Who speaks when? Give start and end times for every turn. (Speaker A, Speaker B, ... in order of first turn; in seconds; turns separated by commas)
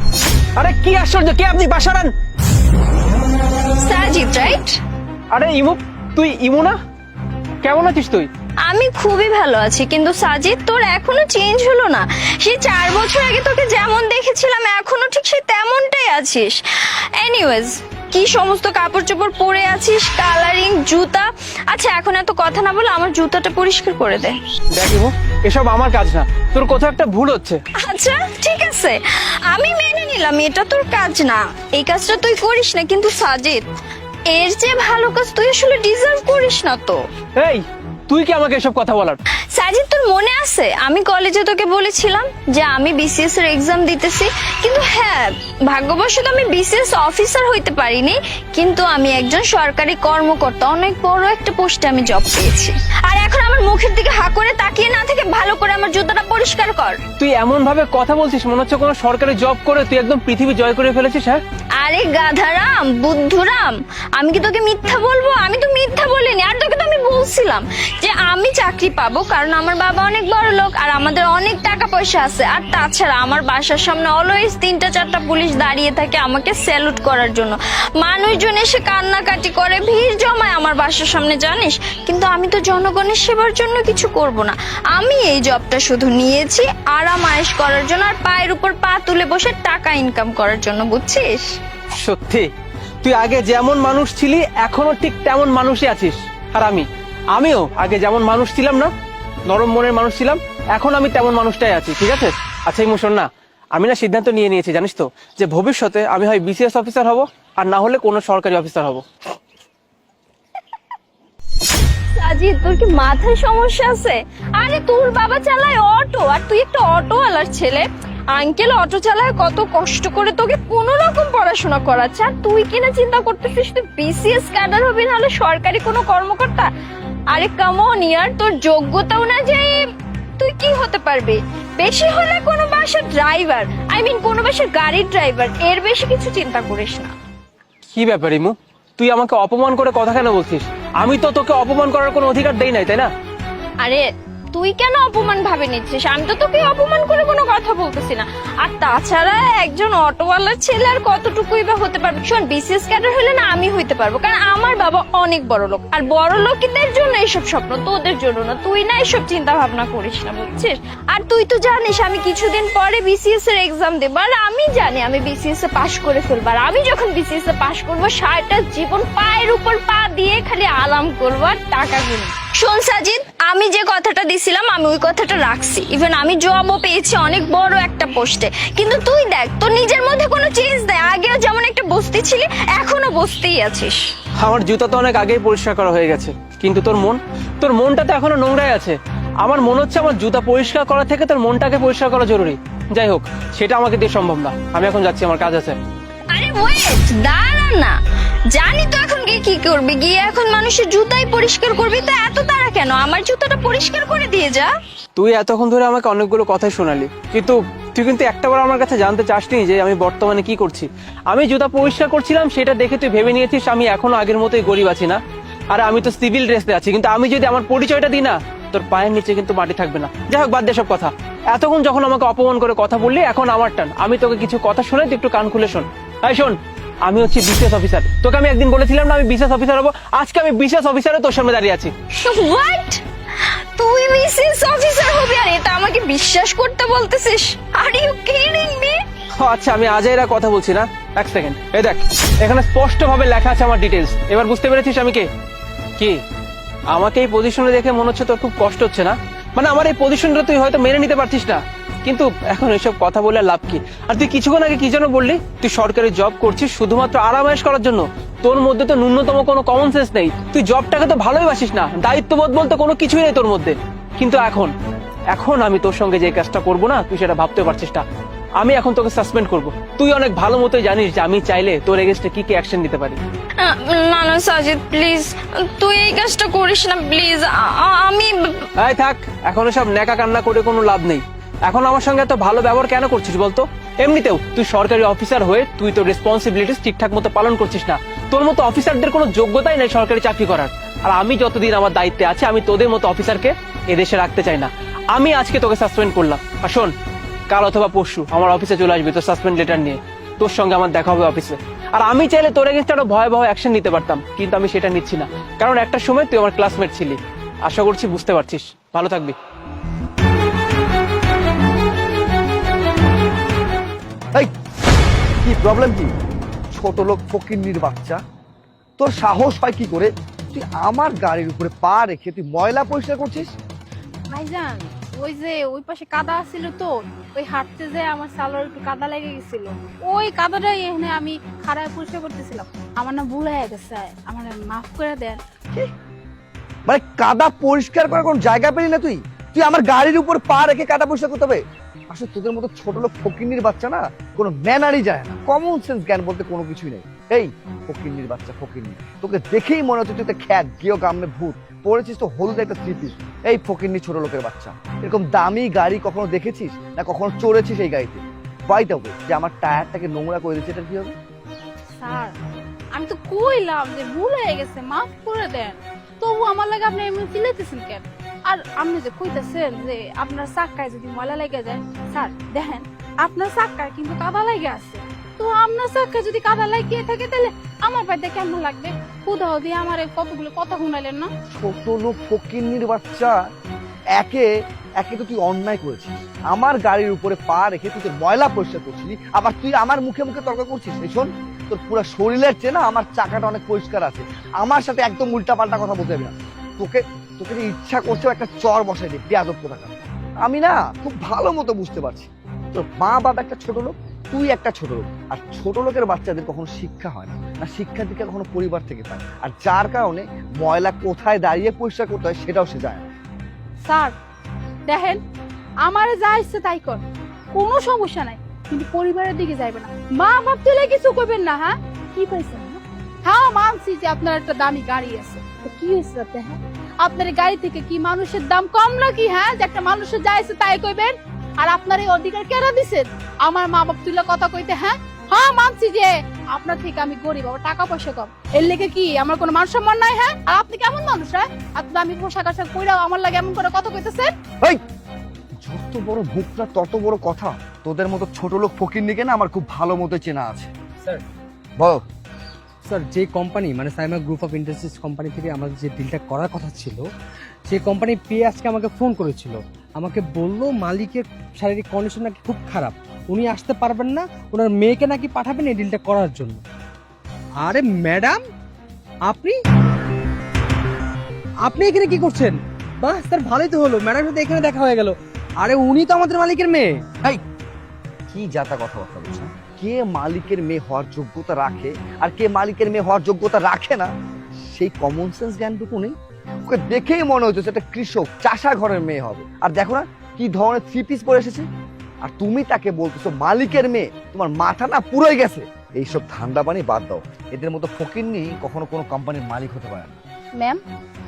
Speaker A: 0.6-2.1, Speaker B: 3.8-4.8, Speaker A: 5.3-6.8, Speaker A: 7.6-8.3, Speaker B: 8.7-16.6, Speaker B: 17.2-24.4, Speaker A: 24.8-27.6, Speaker B: 27.8-33.6, Speaker B: 34.3-37.0, Speaker A: 37.4-39.2, Speaker B: 39.6-57.0, Speaker A: 57.2-61.4, Speaker B: 61.8-91.5, Speaker A: 91.9-92.5, Speaker A: 93.0-98.9, Speaker A: 99.5-109.0, Speaker B: 112.2-126.7, Speaker B: 127.3-129.8, Speaker B: 130.4-137.1, Speaker A: 137.9-143.1, Speaker B: 143.8-184.0, Speaker A: 184.4-195.8, Speaker B: 196.3-198.0, Speaker B: 198.5-204.7, Speaker A: 205.2-215.2, Speaker A: 215.7-231.9, Speaker B: 232.2-233.0, Speaker B: 233.8-239.0, Speaker A: 239.4-245.3, Speaker A: 246.9-264.7, Speaker A: 265.3-268.0, Speaker A: 268.6-273.2, Speaker B: 273.6-278.6, Speaker A: 278.8-296.9, Speaker A: 297.5-309.4, Speaker C: 315.4-316.1, Speaker C: 316.7-318.2, Speaker C: 319.0-323.5, Speaker D: 324.3-335.4, Speaker C: 336.9-361.1, Speaker D: 362.0-381.3, Speaker C: 381.5-383.4, Speaker C: 384.2-413.1, Speaker D: 413.9-414.1, Speaker D: 414.9-415.2, Speaker D: 415.9-444.3, Speaker C: 445.6-450.7, Speaker E: 452.9-457.1, Speaker E: 457.7-466.6, Speaker E: 467.6-468.4, Speaker E: 469.3-469.6, Speaker E: 471.6-477.1, Speaker C: 478.3-484.1, Speaker C: 484.6-486.1, Speaker C: 486.7-491.7, Speaker C: 492.2-500.2